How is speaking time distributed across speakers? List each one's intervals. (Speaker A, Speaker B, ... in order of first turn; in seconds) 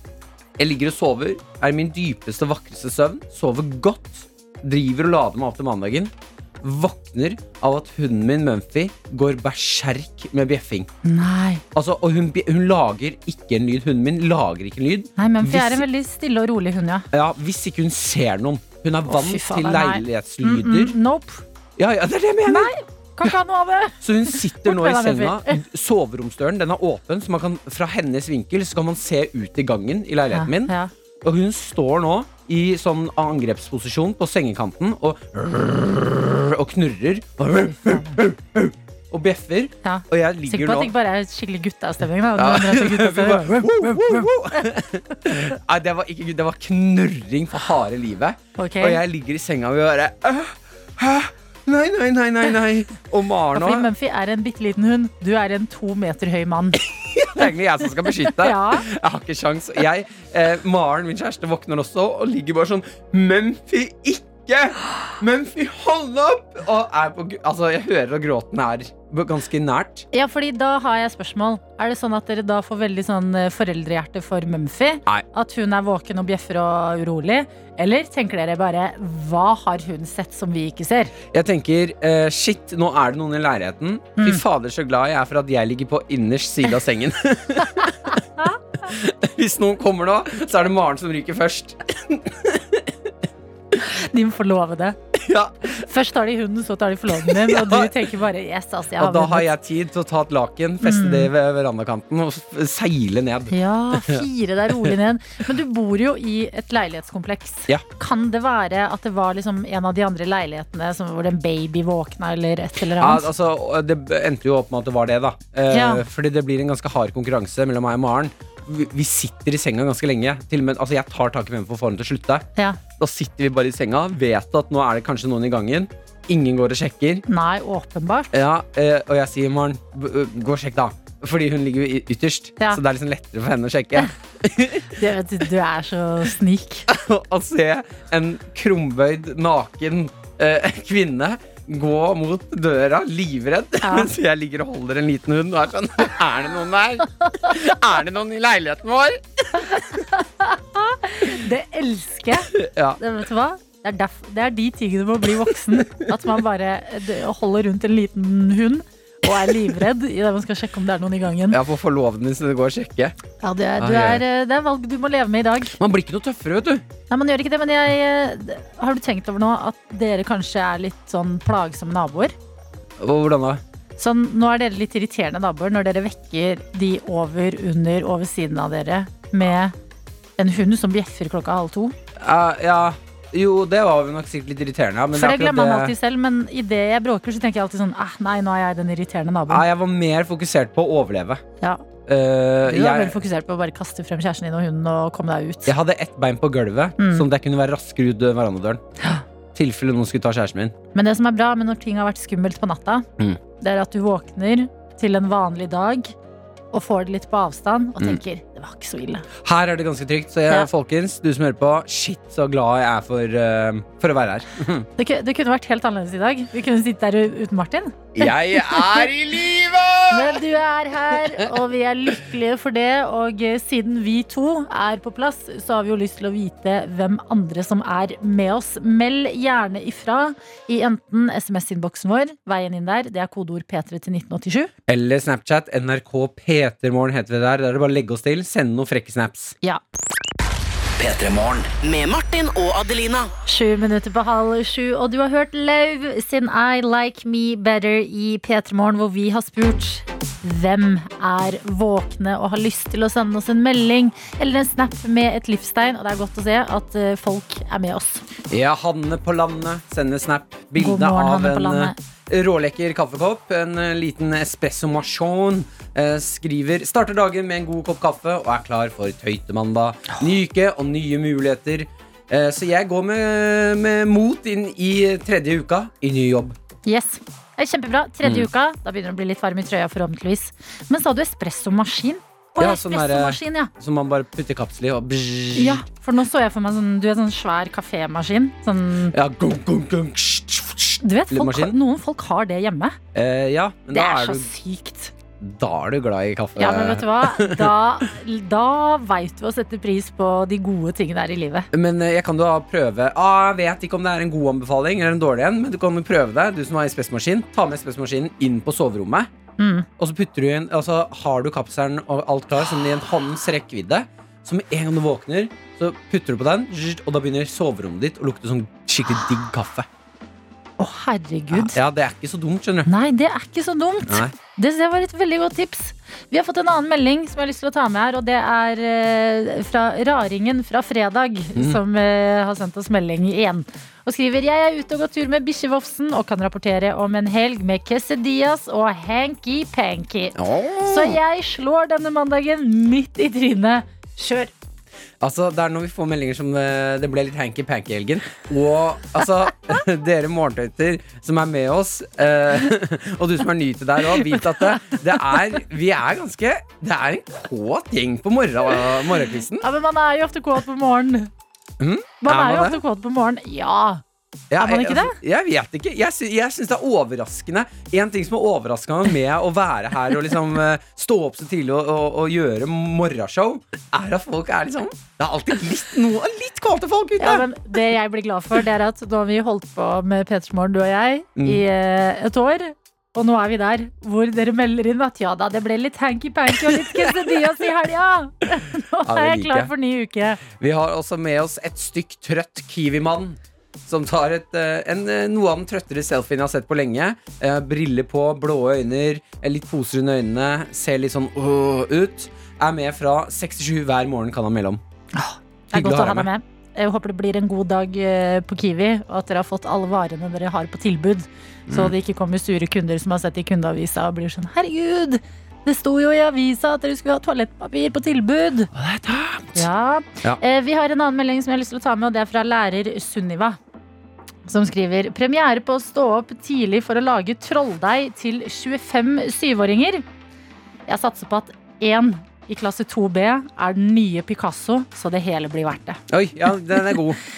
Speaker A: 0.6-10.9, 11.7-15.8, 17.1-20.9, 21.8-22.7, 24.0-40.9, 42.4-53.9, 56.8-70.0, 81.3-88.2, 88.8-92.9, 95.1-95.8, 97.1-98.0, 99.0-104.2, 112.9-122.5, 123.0-127.2, 128.3-134.9, 136.9-150.0, 152.5-153.0, 155.8-156.1, 161.5-163.1, 163.8-164.2, 165.8-166.8, 173.0-173.6, 182.2-185.9, 189.5-191.4, 192.1-193.2, 195.7-198.8, 199.5-200.7, 209.4-214.9, 218.1-220.4, 234.9-239.6, 258.5-276.6, 282.6-285.8, 289.1-291.7, 293.1-294.5, 295.4-297.7, 301.7-309.3, 310.0-319.9, 321.5-322.9, 324.1-324.3, 340.3-341.2, 345.2-359.6, 361.8-362.8, 364.5-377.5, 381.4-381.6, 386.6-387.3, 389.0-389.7, 390.4-404.8, 405.7-406.3, 411.7-411.9, 418.7-419.7, 436.1-437.2
Speaker B: 11.0-11.6, 15.2-17.1, 19.1-21.4, 22.4-25.6, 30.3-30.9, 37.5-38.2, 39.8-44.3, 48.6-49.0, 53.5-56.8, 58.2-58.8, 70.1-81.1, 93.8-95.0, 95.8-99.5, 100.8-101.3, 103.5-113.3, 115.7-116.0, 127.3-128.3, 134.9-136.9, 143.8-144.1, 149.7-161.6, 163.4-165.7, 167.1-172.3, 174.0-179.7, 180.4-181.9, 185.1-189.6, 192.6-195.7, 197.0-197.2, 200.9-203.1, 203.6-206.1, 206.7-209.2, 215.0-219.1, 220.1-234.7, 243.4-258.2, 260.8-261.9, 276.9-283.7, 285.5-289.1, 291.0-293.0, 293.9-295.1, 296.6-301.7, 309.6-309.9, 320.8-321.8, 322.9-344.5, 359.6-361.3, 362.2-364.0, 364.6-365.2, 377.2-390.4, 405.1-418.7, 419.5-423.6, 424.4-430.0, 430.9-436.0
Speaker C: 241.0-243.3